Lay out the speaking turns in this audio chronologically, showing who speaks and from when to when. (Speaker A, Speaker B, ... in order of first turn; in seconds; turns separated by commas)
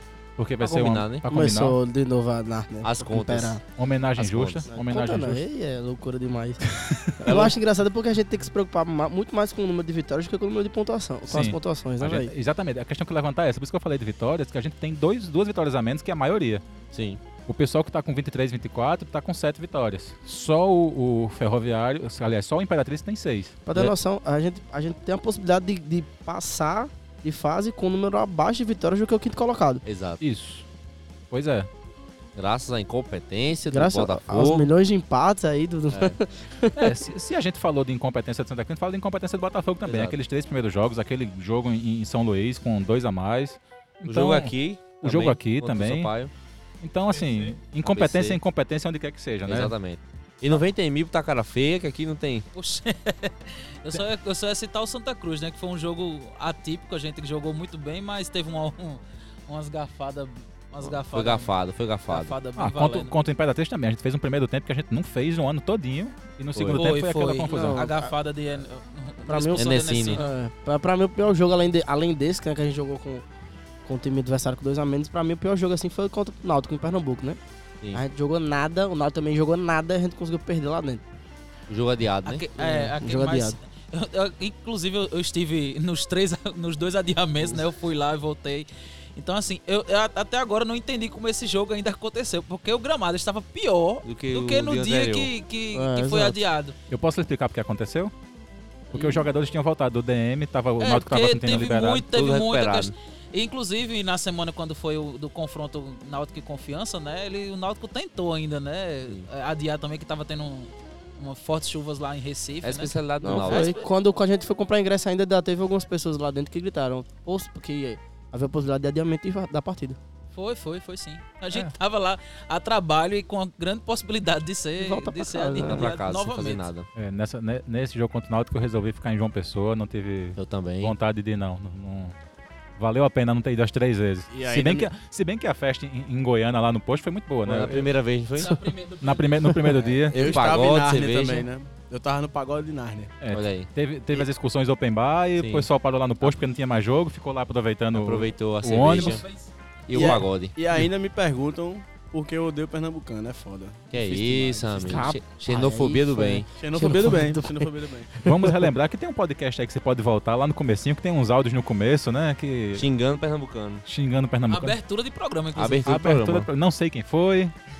Speaker A: 0.4-1.8, Speaker B: 0.6-1.2, Speaker C: 1.3-3.6, Speaker B: 2.8-3.6, Speaker A: 3.7-5.4, Speaker B: 4.2-4.6, Speaker C: 4.7-6.6, Speaker A: 6.7-7.5, Speaker C: 7.2-12.3, Speaker A: 11.3-16.6, Speaker B: 16.9-17.2, Speaker A: 17.5-23.6, Speaker C: 23.6-29.8, Speaker B: 29.8-30.2, Speaker A: 30.2-30.6, Speaker A: 31.3-31.7, Speaker B: 32.4-34.7, Speaker C: 33.7-36.9, Speaker B: 35.9-36.1, Speaker A: 36.8-46.1, Speaker B: 39.8-40.2, Speaker B: 44.0-46.3, Speaker A: 46.8-49.7, Speaker B: 47.8-48.4, Speaker B: 49.5-52.5, Speaker D: 52.5-61.5, Speaker B: 60.8-62.4, Speaker D: 62.1-63.1, Speaker A: 62.5-67.9, Speaker B: 66.5-66.8, Speaker D: 66.7-70.3, Speaker C: 67.5-68.1, Speaker C: 69.3-73.2, Speaker B: 69.5-70.2, Speaker C: 73.8-77.4, Speaker C: 77.9-81.0, Speaker B: 81.7-82.4, Speaker D: 82.2-96.7, Speaker C: 82.6-83.6, Speaker B: 94.0-95.3, Speaker C: 95.7-96.4, Speaker A: 96.9-98.1, Speaker A: 98.9-102.1, Speaker D: 100.8-113.7, Speaker B: 102.1-102.9, Speaker B: 112.6-113.7, Speaker C: 113.2-120.0, Speaker D: 120.3-126.7, Speaker C: 124.8-125.9, Speaker B: 125.6-126.9, Speaker A: 127.0-132.1, Speaker B: 130.4-130.9, Speaker A: 132.8-137.9, Speaker E: 134.3-134.9, Speaker B: 137.4-138.5, Speaker D: 138.3-139.5, Speaker A: 139.0-140.2, Speaker E: 139.8-143.1, Speaker B: 140.1-141.5, Speaker A: 143.2-149.2, Speaker B: 143.3-143.7, Speaker B: 145.4-145.7, Speaker B: 147.9-149.2, Speaker D: 148.9-149.5, Speaker B: 149.9-150.6, Speaker E: 149.9-155.0, Speaker B: 153.9-157.3, Speaker C: 154.8-157.6, Speaker E: 156.6-158.2, Speaker A: 158.2-162.8, Speaker C: 158.2-158.7, Speaker B: 162.8-163.8, Speaker A: 163.8-164.8, Speaker D: 164.5-165.9, Speaker B: 165.5-166.5, Speaker A: 165.8-167.5